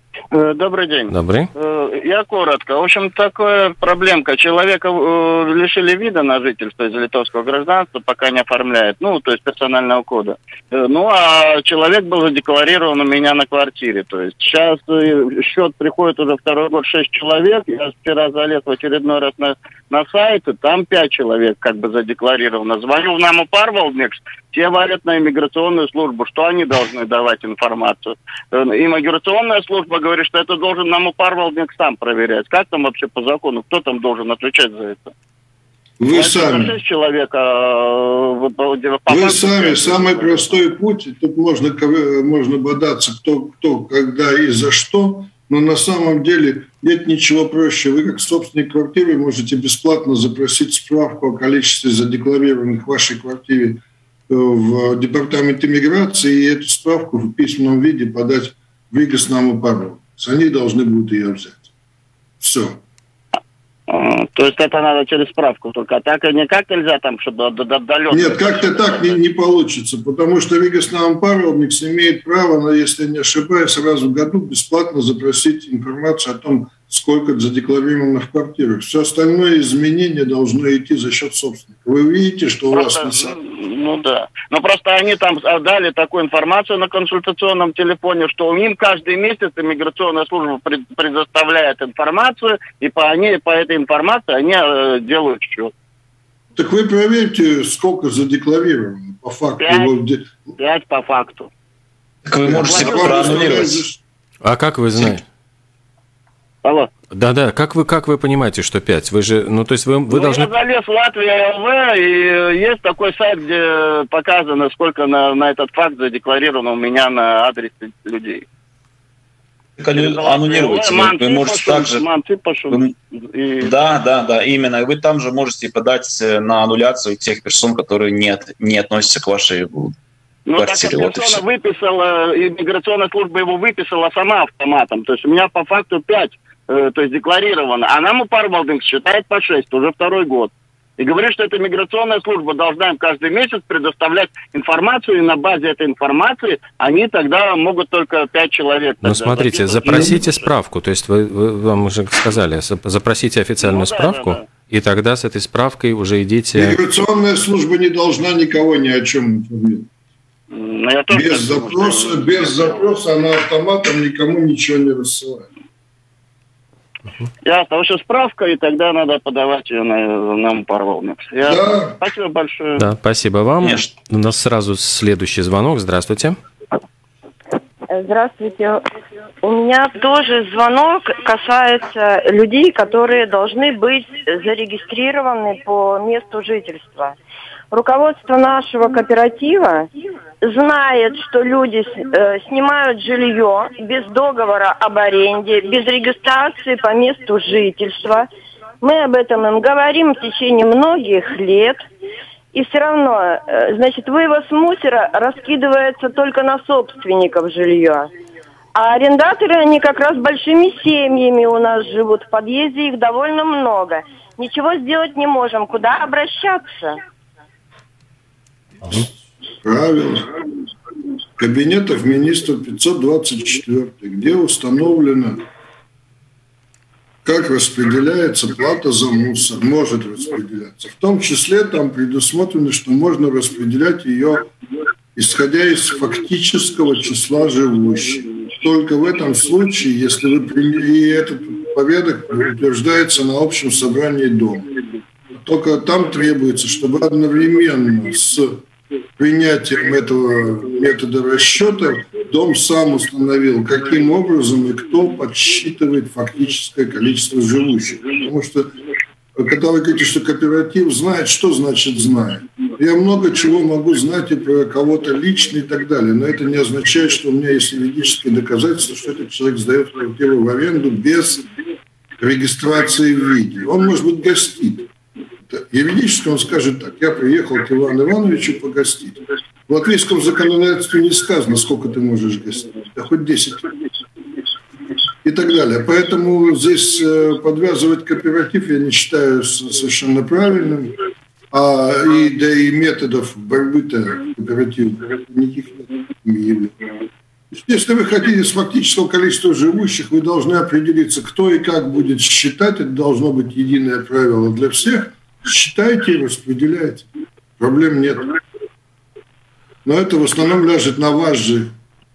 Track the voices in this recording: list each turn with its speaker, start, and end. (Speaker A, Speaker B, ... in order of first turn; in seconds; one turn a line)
Speaker A: 0.3-35.1
Speaker B: 1.1-1.5
Speaker C: 36.0-36.7
Speaker A: 36.1-40.6
Speaker C: 39.1-61.7
Speaker C: 62.4-62.8
Speaker A: 63.9-69.2
Speaker C: 68.1-83.3
Speaker A: 82.7-95.7
Speaker C: 96.5-100.5
Speaker A: 99.6-100.0
Speaker A: 100.6-101.5
Speaker D: 102.2-103.8
Speaker C: 102.4-104.0
Speaker A: 102.5-103.6
Speaker B: 104.4-105.2
Speaker A: 106.6-106.9
Speaker B: 107.1-110.5
Speaker A: 110.1-118.4
Speaker D: 119.8-122.0
Speaker A: 119.9-123.7
Speaker D: 123.6-129.9
Speaker A: 130.5-150.5
Speaker D: 130.6-131.4
Speaker B: 149.0-156.8
Speaker C: 149.9-150.2
Speaker A: 153.6-154.4
Speaker C: 156.5-159.9
Speaker A: 160.5-162.9
Speaker C: 161.1-165.5
Speaker A: 167.4-172.8
Speaker C: 171.4-172.0
Speaker B: 172.8-176.4
Speaker D: 173.6-173.9
Speaker E: 177.9-178.8
Speaker E: 179.4-187.1
Speaker E: 187.7-189.9
Speaker E: 190.4-198.3
Speaker E: 198.8-201.8
Speaker E: 202.5-208.1
Speaker E: 208.7-217.0
Speaker C: 219.6-220.3
Speaker C: 221.4-225.4
Speaker C: 227.2-234.5
Speaker C: 235.2-244.7
Speaker C: 245.3-248.6
Speaker C: 249.2-258.7
Speaker C: 259.3-271.4
Speaker C: 272.2-274.9
Speaker C: 275.5-283.7
Speaker C: 285.2-290.9
Speaker C: 291.5-296.7
Speaker C: 297.5-308.2
Speaker C: 309.8-311.7